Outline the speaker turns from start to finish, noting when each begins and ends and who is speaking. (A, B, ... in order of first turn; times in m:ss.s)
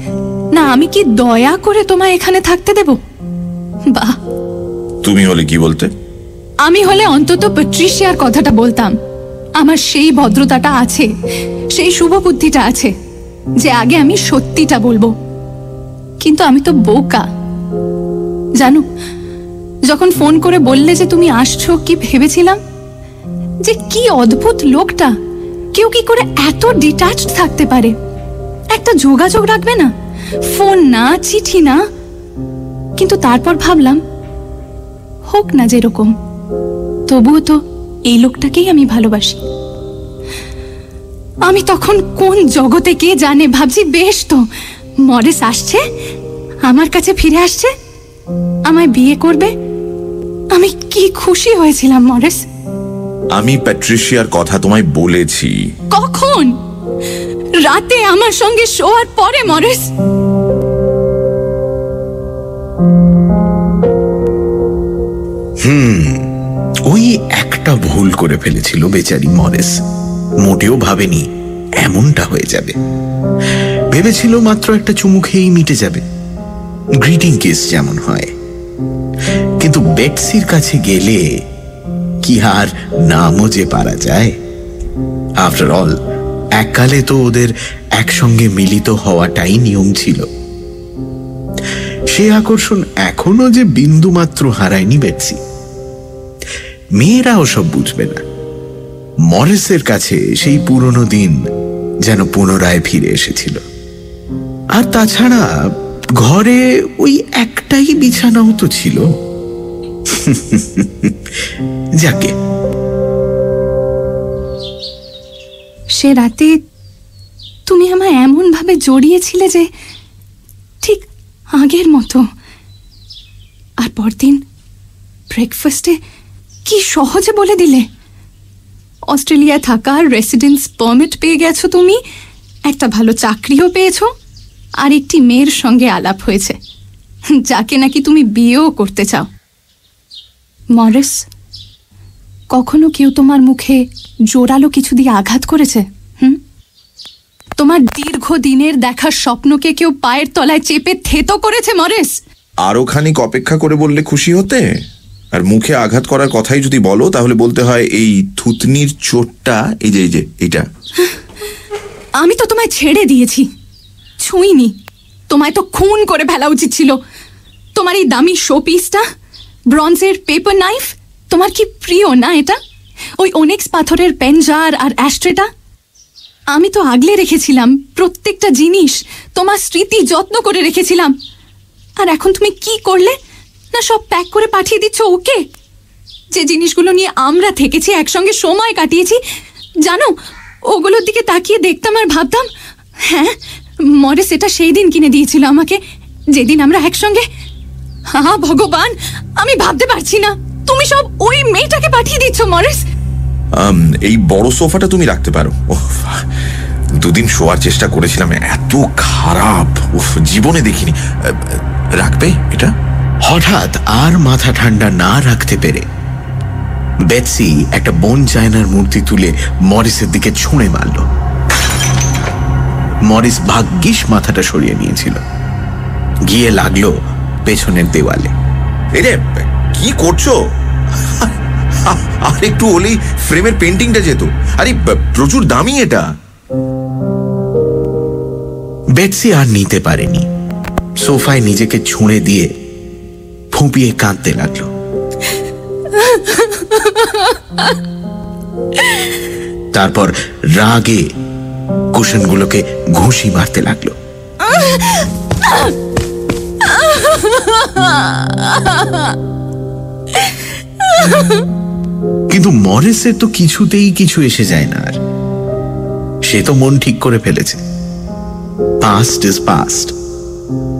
0:00.5-0:03.0 A
0:05.0-0:05.9 B
0:06.6-0:08.9 A
0:09.6-0:11.1 A
0:11.8-0:12.9 A
0:13.6-0:15.1 A
0:16.2-0:17.2 A
0:18.6-0:18.8 A
0:19.9-0:22.6 A
0:23.6-0:25.1 A
0:25.7-0:27.9 A
0:28.7-0:29.9 A
0:30.4-0:31.8 A
0:33.0-0:34.0 A
0:35.3-0:36.1 A
0:37.1-0:39.4 A
0:41.4-0:44.4 A
0:45.0-0:45.8 A
0:46.6-0:47.7 A
0:48.7-0:49.5 A
0:50.5-0:52.4 A
0:53.3-0:55.6 B
0:55.9-0:56.5 A
0:57.6-0:59.9 A
1:05.6-1:06.3 C
1:06.8-1:09.8 C
1:10.4-1:11.3 C
1:11.8-1:12.8 C
1:13.5-1:16.0 C
1:17.0-1:18.3 C
1:19.6-1:21.2 C
1:22.2-1:24.4 C
1:25.4-1:26.0 C
1:26.6-1:30.3 C
1:32.1-1:35.4 C
1:37.0-1:38.2 C
1:39.3-1:41.4 C
1:42.0-1:43.6 C
1:44.7-1:45.5 C
1:46.2-1:49.0 C
1:50.1-1:52.3 C
1:55.9-1:56.6 A
1:57.7-1:59.7 A
2:00.8-2:02.2 A
2:03.8-2:04.4 A
2:05.3-2:06.0 A
2:06.6-2:07.8 A
2:09.1-2:12.0 A
2:12.7-2:14.1 A
2:14.8-2:16.6 A
2:17.3-2:19.3 A
2:20.8-2:21.2 A
2:22.5-2:26.4 A
2:27.6-2:32.2 A
2:32.6-2:34.8 B
2:35.3-2:40.7 B
2:42.2-2:43.4 A
2:44.2-2:44.7 A
2:45.3-2:47.0 A
2:47.7-2:49.0 A
2:49.7-2:52.6 A
2:53.2-2:55.5 A
2:56.5-3:01.1 A
3:02.0-3:03.2 A
3:03.7-3:05.4 A
3:06.3-3:09.2 A
3:09.8-3:10.1 A
3:10.6-3:12.4 A
3:13.0-3:13.3 A
3:13.8-3:15.8 A
3:16.3-3:17.2 A
3:18.1-3:22.8 A
3:23.5-3:26.3 B
3:27.0-3:32.7 B
3:33.2-3:35.8 C
3:37.1-3:41.1 C
3:43.0-3:45.2 C
3:46.3-3:48.3 C
3:48.9-3:50.4 B
3:51.0-3:56.1 B
3:59.0-4:00.3 C
4:01.0-4:02.5 C
4:03.5-4:04.7 C
4:05.9-4:07.3 A
4:09.7-4:11.0 C
4:11.9-4:14.0 C
4:14.5-4:15.7 A
4:16.6-4:19.0 A
4:20.9-4:21.4 A
4:22.3-4:25.0 C
4:26.2-4:27.6 C
4:28.8-4:29.9 C